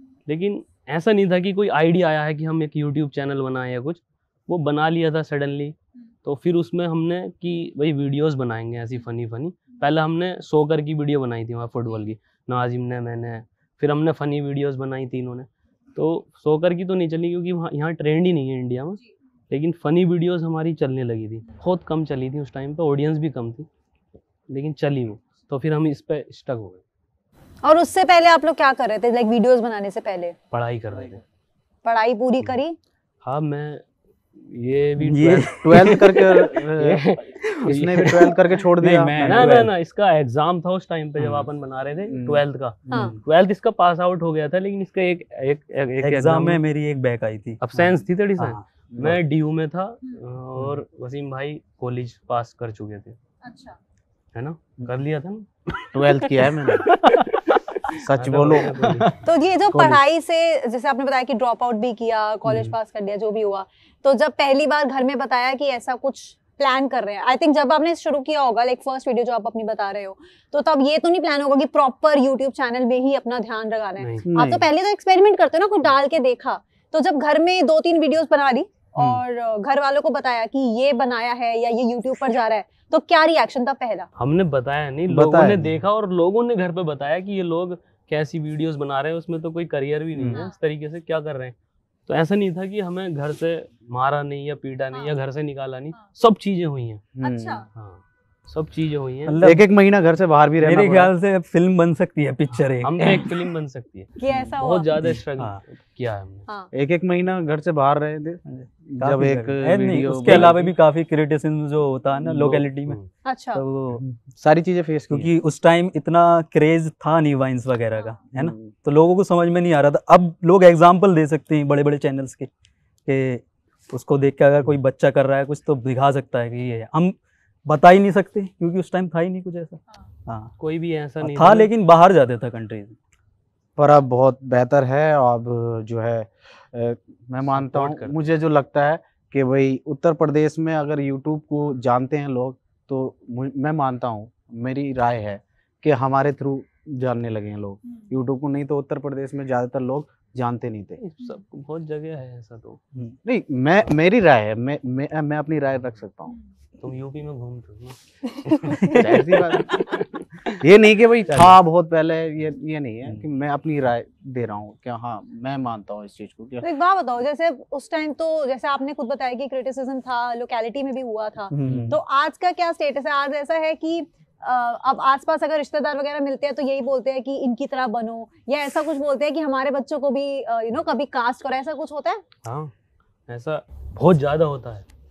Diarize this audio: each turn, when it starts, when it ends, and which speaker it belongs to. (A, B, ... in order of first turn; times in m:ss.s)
0:00.3-0:23.7 A
0:24.5-0:26.8 A
0:27.6-0:30.4 B
0:30.5-0:31.2 A
0:31.8-0:32.8 B
0:33.2-0:33.8 A
0:34.4-0:38.4 A
0:35.0-0:36.5 C
0:35.6-0:37.0 D
0:37.4-0:39.7 C
0:37.7-0:39.6 D
0:39.2-0:46.6 A
0:41.2-0:41.5 C
0:42.1-0:42.4 D
0:42.9-0:43.2 B
0:46.0-0:48.6 C
0:47.6-0:53.2 A
0:49.0-0:49.2 D
0:53.4-0:53.8 B
0:54.4-0:59.2 A
0:55.9-0:56.9 D
0:56.7-0:57.4 C
0:57.9-0:58.8 D
0:58.8-1:00.0 C
0:59.2-1:24.1 B
1:02.5-1:02.7 C
1:14.0-1:14.3 A
1:14.3-1:14.6 C
1:14.3-1:14.6 D
1:24.2-1:31.6 A
1:25.1-1:25.8 D
1:30.2-1:30.5 D
1:30.2-1:30.5 B
1:32.1-1:37.1 A
1:37.2-1:37.6 D
1:37.2-1:37.6 B
1:37.8-1:39.4 A
1:39.3-1:39.7 C
1:39.4-1:41.1 D
1:40.6-1:43.3 C
1:42.5-1:46.5 A
1:44.2-1:44.9 B
1:46.7-1:50.7 D
1:48.4-1:53.0 C
1:52.2-1:53.1 A
1:53.2-1:53.6 B
1:53.5-1:54.0 C
1:54.0-1:55.3 D
1:55.1-2:02.5 C
2:03.1-2:10.5 C
2:10.6-2:11.7 A
2:11.2-2:13.0 C
2:13.8-2:31.0 D
2:17.5-2:18.2 A
2:31.0-2:32.8 A
2:33.2-2:36.4 D
2:36.8-2:40.6 A
2:38.7-2:39.2 C
2:38.9-2:39.8 D
2:40.6-2:46.7 D
2:41.3-2:41.6 A
2:46.6-3:02.2 B
2:51.5-2:52.0 C
3:02.4-3:02.7 A
3:03.3-3:04.9 A